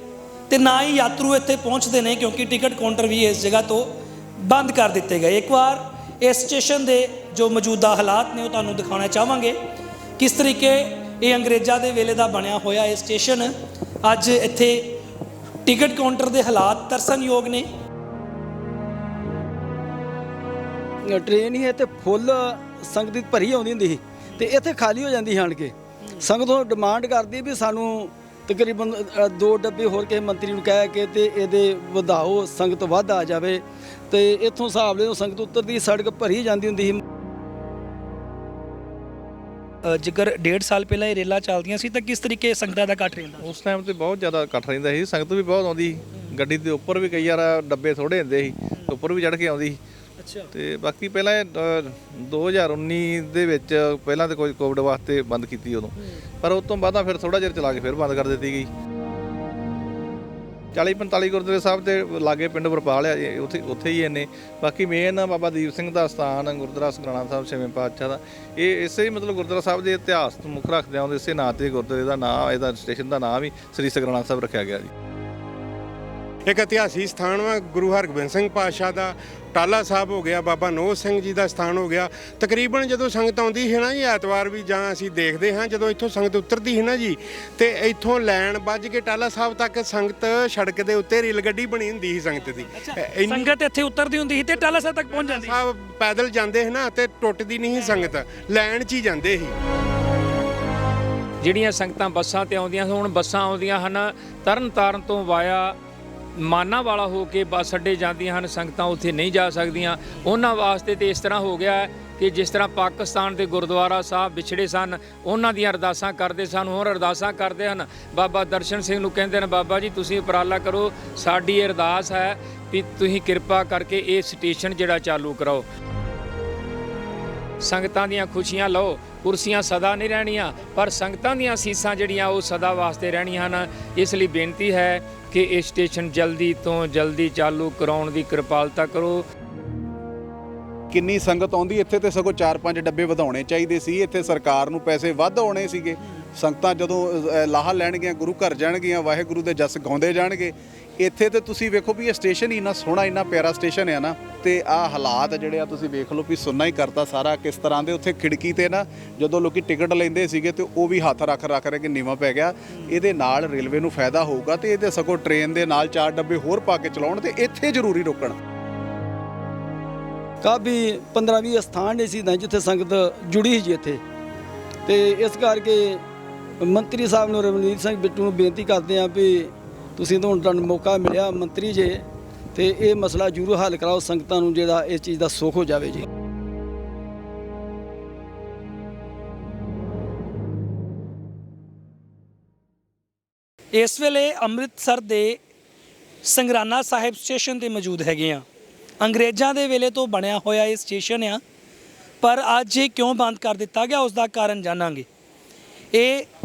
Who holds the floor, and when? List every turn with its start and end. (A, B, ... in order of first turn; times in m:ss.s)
0:00.5-0:09.6 A
0:10.2-0:13.5 A
0:14.0-0:15.0 A
0:15.6-0:17.7 A
0:21.0-0:37.0 B
0:39.9-0:43.5 A
0:43.4-0:49.8 C
0:50.2-0:50.5 A
0:50.5-0:58.7 C
1:00.8-1:14.9 C
1:16.5-1:33.6 D
1:32.7-1:35.6 A
1:35.1-1:39.5 D
1:37.7-1:38.1 A
1:41.4-1:45.8 E
1:46.4-2:05.7 E
2:07.6-2:19.2 E
2:20.9-2:48.4 F
2:50.4-2:54.0 B
2:54.8-2:56.0 B
2:56.6-3:06.0 B
3:13.7-3:15.4 A
3:16.2-3:18.4 A
3:19.0-3:21.4 A
3:22.2-3:25.1 A
3:25.9-3:26.3 A